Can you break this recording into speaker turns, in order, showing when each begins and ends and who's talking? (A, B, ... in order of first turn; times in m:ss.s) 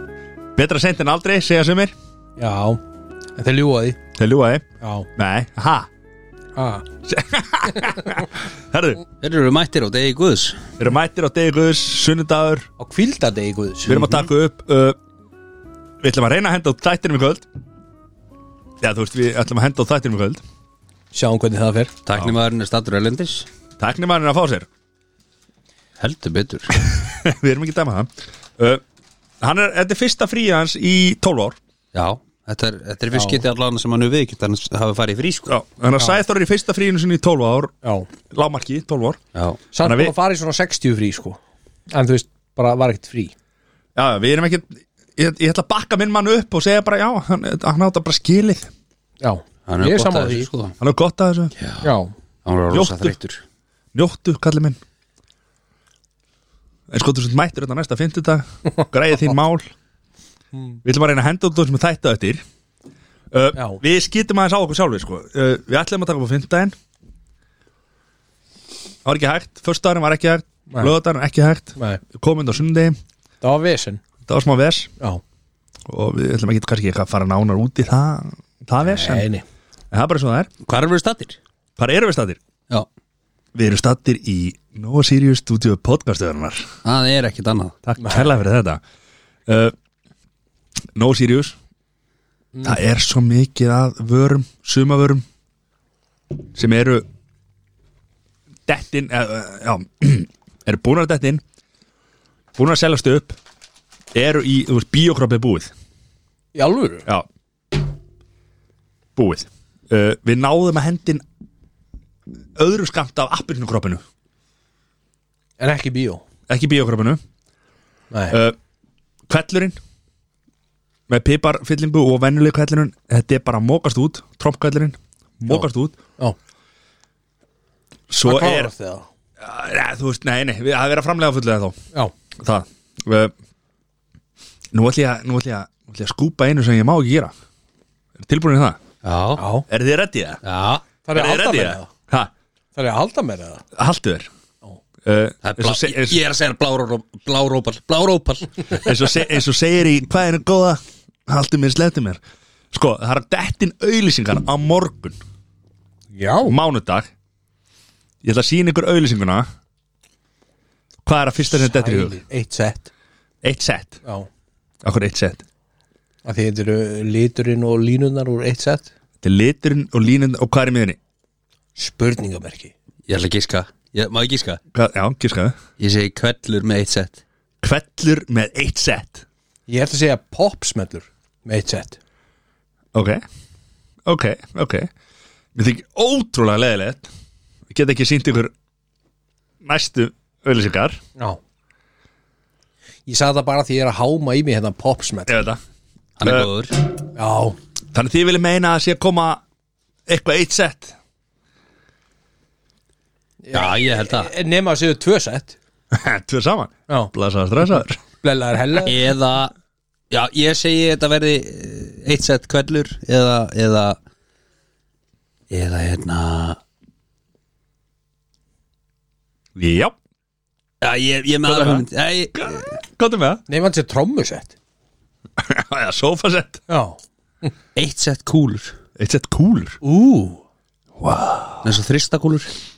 0:00.5-0:01.9 A
0:02.4-0:02.8 B
0:03.4-0:04.0 B
0:04.1-0:04.6 A
0:04.8-0:05.1 B
0:05.2-0:05.9 A
0:06.6-0:06.8 B
0:07.0-0:09.0 A
0:09.2-0:10.7 C
0:10.8-0:12.7 A
0:12.8-0:14.1 B
0:13.8-0:15.0 A
0:16.0-0:17.4 A
0:18.8-0:20.4 A
0:21.1-0:21.9 B
0:22.0-0:23.5 C
0:23.8-0:24.7 A
0:26.0-0:26.7 C
0:26.8-0:28.8 A
0:29.4-0:31.6 A
0:31.9-0:35.5 C
0:33.1-0:33.4 B
0:35.5-0:37.7 A
0:37.8-0:38.1 B
0:38.3-0:39.2 A
0:39.3-0:39.6 C
0:39.7-0:41.4 B
0:39.8-0:40.1 A
0:41.9-0:43.3 B
0:43.9-0:48.7 A
0:49.2-0:50.5 B
0:49.7-0:50.8 C
0:50.8-0:51.5 A
0:51.6-0:51.9 C
0:51.8-0:52.1 B
0:52.4-0:53.4 C
0:52.7-0:53.1 A
0:53.9-0:54.8 A
0:56.9-0:59.7 A
1:00.5-1:00.8 B
1:00.8-1:02.4 A
1:03.3-1:06.7 A
1:03.5-1:03.8 B
1:09.0-1:13.0 A
1:11.8-1:12.0 B
1:13.4-1:14.0 B
1:14.2-1:14.9 A
1:15.9-1:19.3 A
1:18.8-1:19.4 B
1:19.9-1:20.5 A
1:20.6-1:21.4 C
1:21.8-1:22.4 A
1:23.5-1:26.7 A
1:26.8-1:27.8 C
1:27.8-1:28.8 A
1:28.0-1:28.3 B
1:29.5-1:29.7 A
1:30.9-1:31.6 A
1:32.6-1:35.2 A
1:36.5-1:37.0 A
1:38.7-1:41.4 A
1:42.5-1:43.4 A
1:44.1-1:45.7 A
1:46.5-1:47.0 B
1:49.2-1:51.2 A
1:52.6-1:54.0 A
1:55.6-1:56.2 B
1:56.5-1:57.2 A
1:58.1-1:58.4 B
1:58.3-1:58.6 A
1:59.3-1:59.8 A
2:01.1-2:06.0 A
2:08.1-2:08.7 A
2:08.2-2:09.0 B
2:09.4-2:11.8 A
2:12.4-2:13.3 A
2:14.7-2:17.3 A
2:18.2-2:18.8 A
2:19.0-2:19.4 C
2:19.4-2:19.6 B
2:19.7-2:20.4 A
2:20.4-2:20.8 C
2:21.0-2:21.9 B
2:21.1-2:22.3 A
2:22.8-2:23.6 B
2:23.7-2:24.3 A
2:25.0-2:26.2 A
2:25.4-2:28.9 C
2:28.7-2:32.2 A
2:32.7-2:35.2 A
2:36.1-2:36.6 B
2:36.5-2:37.1 A
2:38.2-2:39.5 A
2:41.0-2:42.2 A
2:41.5-2:42.9 B
2:43.4-2:44.0 A
2:44.8-2:45.4 A
2:46.2-2:48.9 B
2:49.2-2:51.0 A
2:51.8-2:52.7 B
2:53.1-2:54.6 C
2:54.7-2:55.6 A
2:55.8-2:57.2 C
2:57.6-2:59.2 A
2:59.7-3:02.0 B
3:02.9-3:03.2 A
3:04.0-3:04.9 A
3:05.5-3:07.1 A
3:07.7-3:08.5 A
3:09.6-3:11.0 A
3:13.1-3:15.3 B
3:15.3-3:15.6 A
3:16.2-3:16.8 C
3:16.2-3:16.5 A
3:17.1-3:17.6 B
3:17.9-3:19.4 A
3:20.1-3:21.0 A
3:23.4-3:25.6 B
3:23.5-3:24.3 C
3:25.9-3:28.0 A
3:28.2-3:29.0 B
3:28.8-3:29.5 C
3:30.1-3:34.0 C
3:35.5-3:36.6 C
3:39.6-3:39.9 A
3:40.8-3:42.8 C
3:41.4-3:43.4 A
3:43.5-3:44.5 B
3:45.4-3:46.6 A
3:46.7-3:47.0 B
3:47.7-3:48.7 C
3:49.0-3:49.8 A
3:49.8-3:50.4 B
3:51.0-3:51.7 A
3:51.6-3:52.5 C